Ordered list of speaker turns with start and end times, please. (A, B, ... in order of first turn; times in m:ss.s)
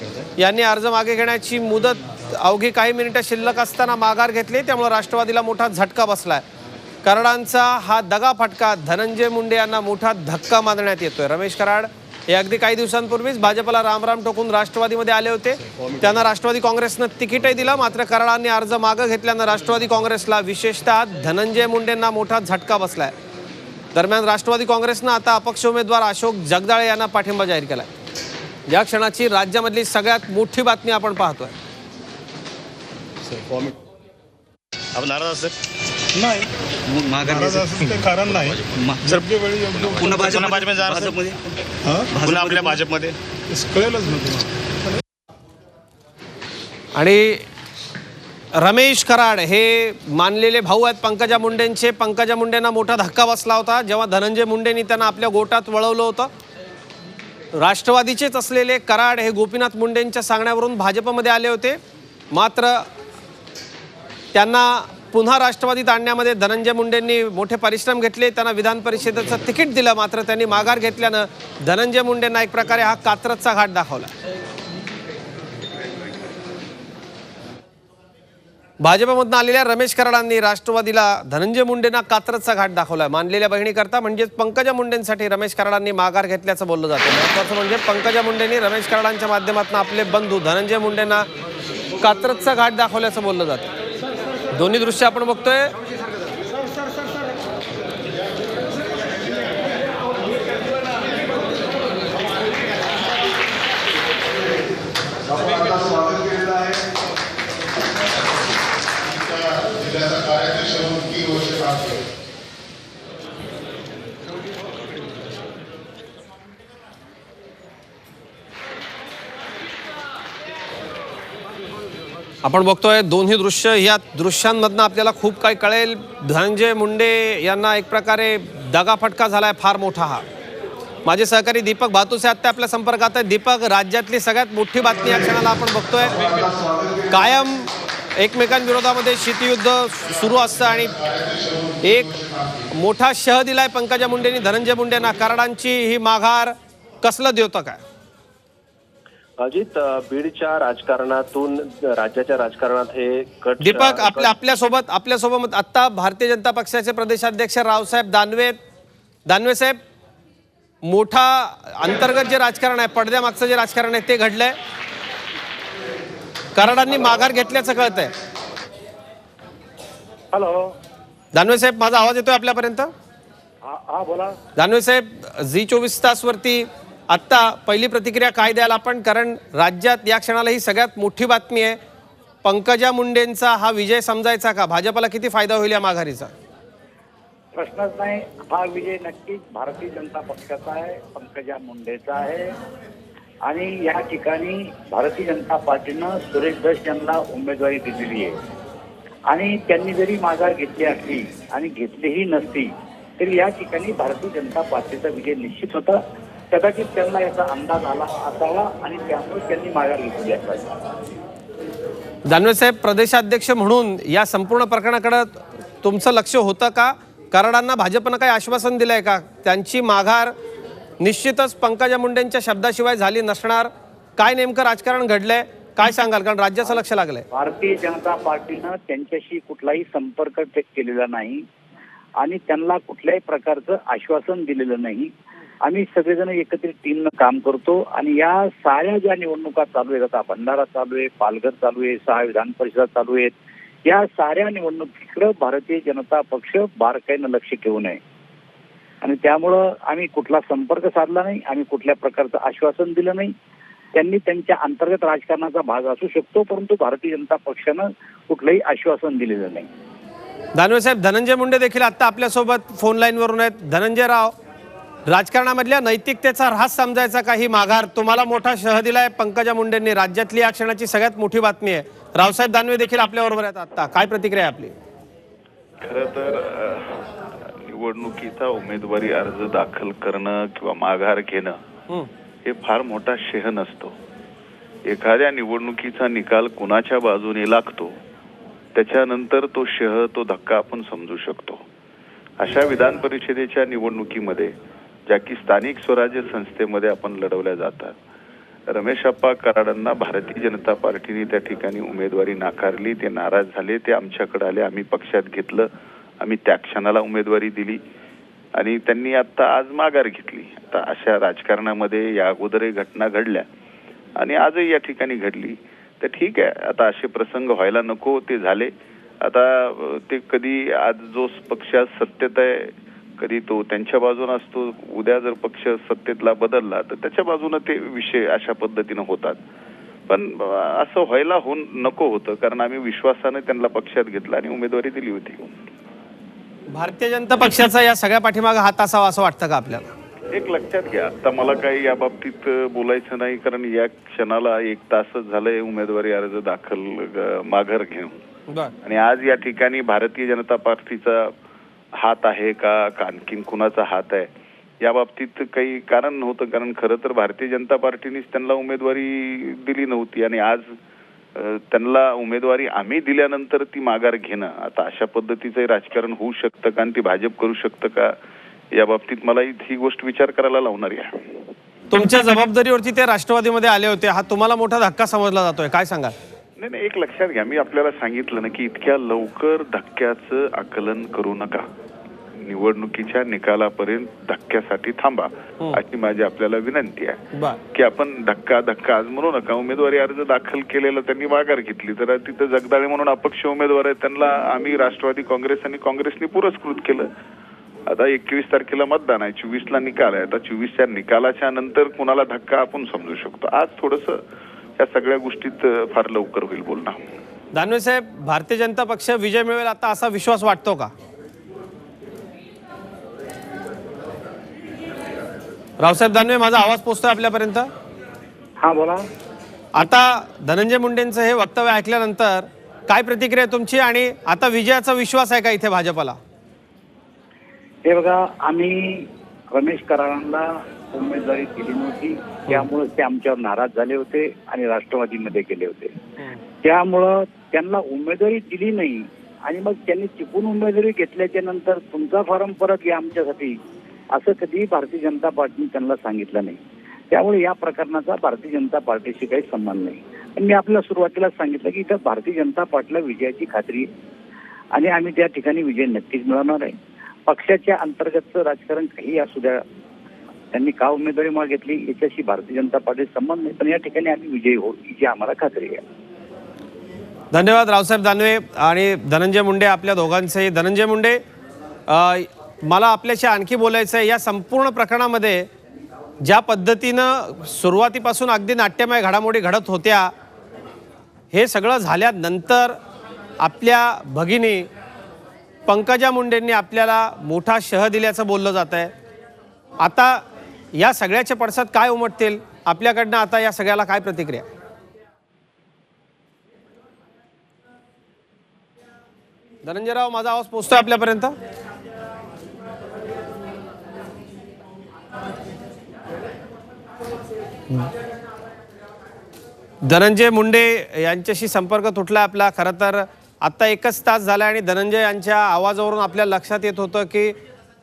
0:00.4-0:06.4 A
0:07.0-0:23.1 A
0:23.9-0:27.9 A
0:28.7-0:31.5 A
0:34.9-0:35.6 B
0:36.1-0:36.5 C
0:36.8-0:39.0 D
0:37.2-0:40.0 C
0:38.3-0:41.2 B
0:40.0-0:41.5 D
0:41.8-0:42.1 C
0:42.1-0:42.8 D
0:42.2-0:43.2 B
0:43.5-0:44.5 C
0:46.9-0:47.4 A
0:48.6-0:56.3 A
0:57.6-1:01.8 A
1:02.3-1:02.8 A
1:04.3-1:14.1 A
1:18.8-1:31.3 A
1:32.0-1:33.7 A
1:34.5-1:35.7 A
2:02.4-2:10.2 A
2:11.0-2:16.5 A
2:17.1-2:21.0 A
2:21.8-2:22.2 A
2:22.7-2:27.8 A
2:29.4-2:34.3 E
2:33.6-2:38.6 A
2:39.3-2:39.8 A
2:40.8-2:44.6 A
2:46.5-2:48.1 A
2:50.3-2:50.7 F
2:51.3-2:52.9 A
2:53.6-2:54.3 F
2:54.6-3:01.8 A
3:02.4-3:06.3 A
3:07.5-3:12.5 F
3:13.4-3:18.4 F
3:19.3-3:26.0 F
3:26.5-3:30.6 F
3:32.3-3:40.3 A
3:41.0-3:47.2 A
3:47.3-3:51.4 F
3:52.2-3:55.1 F
3:55.6-4:03.3 F
4:03.8-4:08.0 F
4:09.0-4:13.3 F
4:13.9-4:19.7 F
4:20.6-4:24.3 A
4:25.1-4:34.7 A
4:35.8-4:41.6 G
4:42.4-4:43.9 G
4:44.9-4:48.0 G
4:48.7-4:51.6 G
4:52.4-4:54.5 G
4:55.1-4:58.0 G
4:58.7-5:05.7 G
5:06.2-5:07.8 G
5:08.6-5:13.4 G
5:14.2-5:18.7 G
5:19.2-5:29.4 G
5:30.1-5:35.5 G
5:36.7-5:39.9 A
5:40.3-5:48.2 G
5:48.8-5:51.3 G
5:52.0-5:54.3 G
5:54.8-6:00.6 G
6:01.4-6:08.1 G
6:08.7-6:11.1 G
6:11.9-6:16.1 A
6:16.6-6:21.6 G
6:22.4-6:37.1 G
6:37.9-6:44.2 G
6:44.8-6:47.0 G
6:47.5-6:50.9 A
6:55.8-6:57.7 A
6:58.6-6:59.0 F
6:59.7-7:06.2 A
7:07.8-7:15.9 F
7:16.6-7:23.6 F
7:24.1-7:26.6 F
7:27.1-7:33.9 F
7:34.7-7:36.7 F
7:37.3-7:39.6 F
7:40.5-7:45.8 F
7:47.3-7:51.2 A
7:51.9-7:55.4 A
7:56.2-8:00.1 A
8:01.3-8:02.8 A
8:03.4-8:04.7 A
8:05.7-8:08.9 A
8:09.8-8:10.2 A
8:10.7-8:14.5 A
8:19.6-8:21.3 A
8:29.8-8:37.3 A